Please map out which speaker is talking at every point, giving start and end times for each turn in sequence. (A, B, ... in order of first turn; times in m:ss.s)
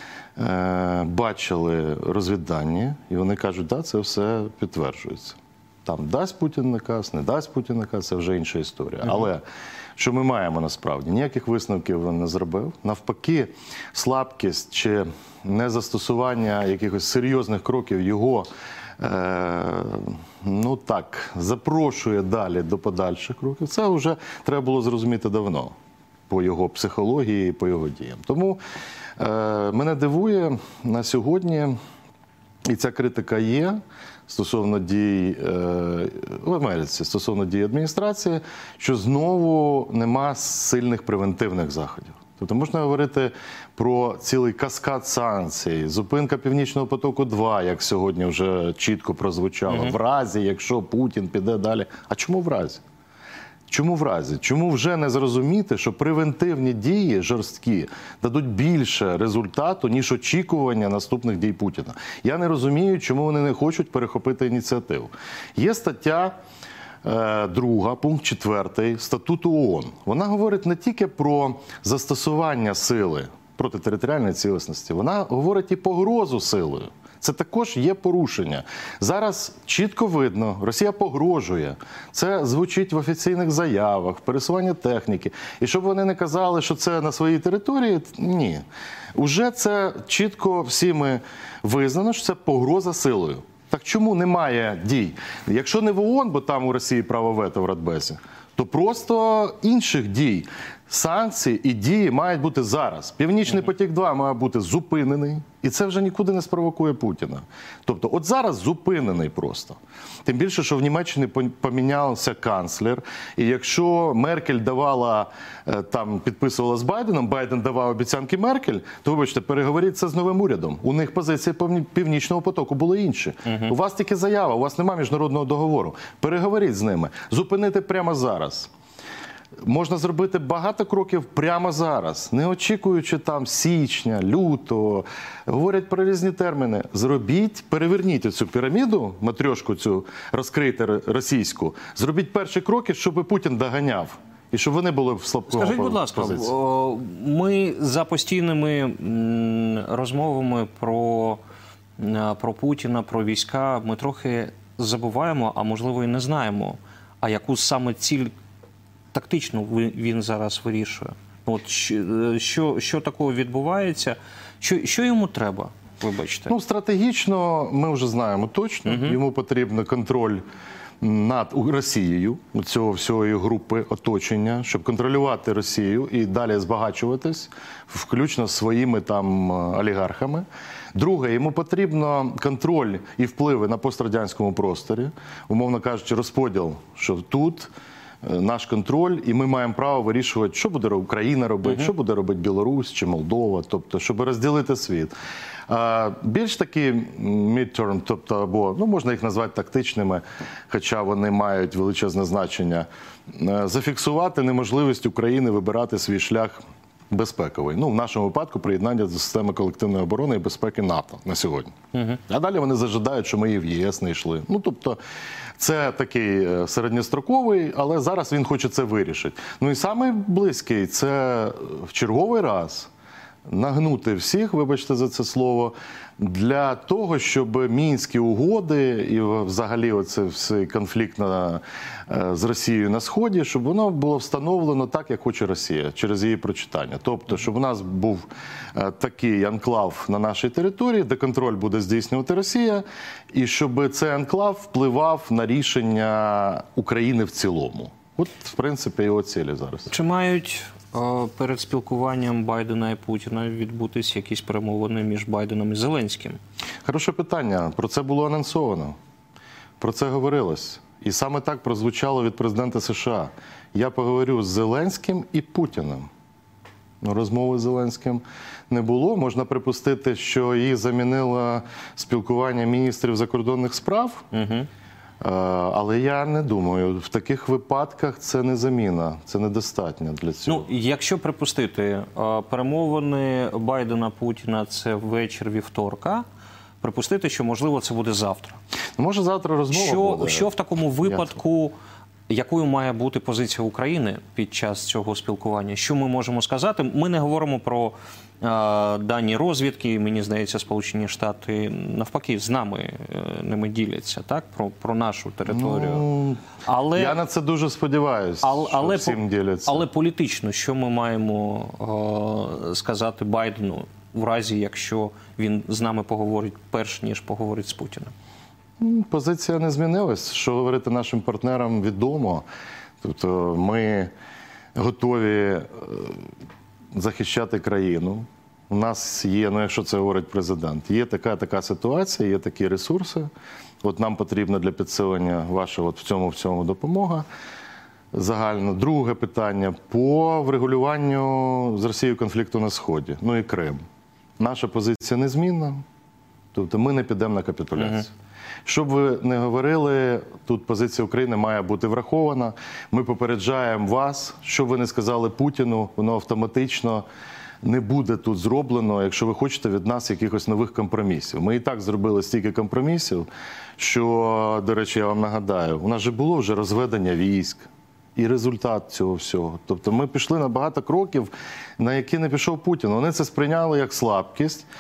0:00.4-0:09.4 A
0:10.0-0:18.5 A
0:19.0-0:25.7 A
0:26.3-0:28.6 A
0:29.2-0:31.8 A
0:32.7-0:52.8 A
0:49.7-0:49.9 B
0:53.7-1:06.3 A
1:07.0-1:28.6 A
1:29.2-2:08.7 A
2:03.4-2:03.8 B
2:09.6-2:26.5 A
2:25.5-2:31.4 B
2:32.0-2:38.3 B
2:39.1-2:46.5 B
2:46.5-2:50.4 A
2:48.9-2:49.2 B
2:51.0-3:07.7 A
3:08.2-3:15.1 A
3:15.7-3:31.8 A
3:31.9-3:32.2 B
3:32.3-3:35.0 A
3:35.6-3:42.9 A
3:43.4-4:09.9 A
4:09.9-4:16.4 B
4:16.8-4:19.0 A
4:19.8-4:26.1 A
4:27.0-4:34.2 A
4:34.3-4:34.7 B
4:35.2-4:40.7 A
4:40.5-4:46.2 B
4:46.8-4:48.6 B
4:49.0-4:50.5 A
4:49.7-4:51.7 B
4:52.3-5:06.1 B
5:05.5-5:06.4 A
5:06.6-5:07.2 B
5:06.9-5:09.8 A
5:08.4-5:18.1 B
5:18.8-5:22.4 A
5:23.0-5:24.1 A
5:24.8-5:26.3 A
5:26.9-5:33.3 A
5:33.8-5:37.2 A
5:38.1-5:43.8 A
5:44.4-5:45.8 A
5:46.5-5:48.1 A
5:47.8-5:48.0 B
5:48.6-5:57.0 A
5:57.6-6:14.7 A